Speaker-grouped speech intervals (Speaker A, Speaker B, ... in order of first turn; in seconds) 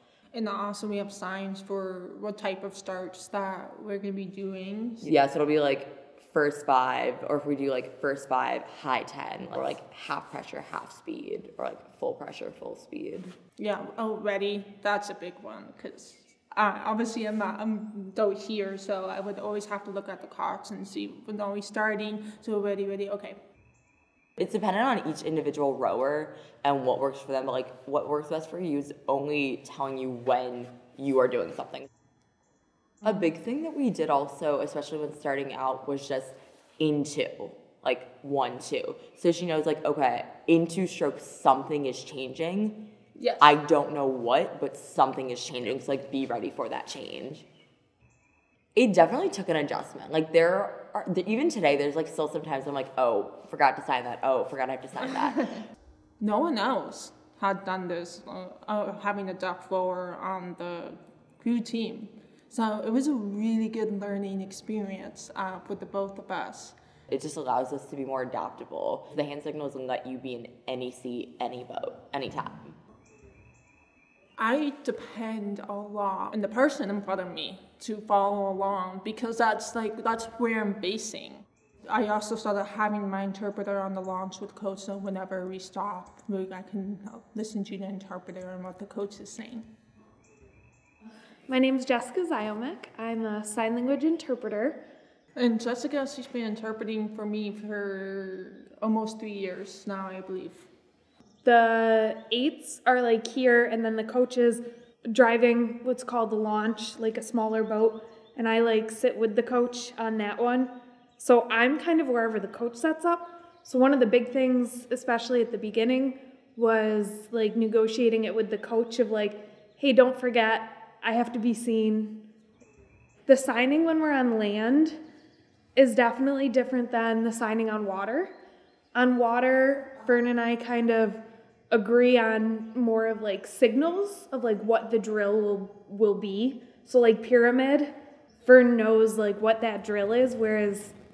Speaker A: 0.3-5.2, 13.6-23.4, 43.1-43.5, 56.2-66.8, 74.4-89.7, 95.3-100.7
Speaker B: 5.0-13.3, 24.4-31.9, 33.0-42.9, 43.4-47.5, 48.7-55.5, 67.1-72.8
Speaker C: 91.5-94.8, 101.4-122.2, 123.2-125.0, 125.7-128.3, 128.9-137.9, 138.4-140.9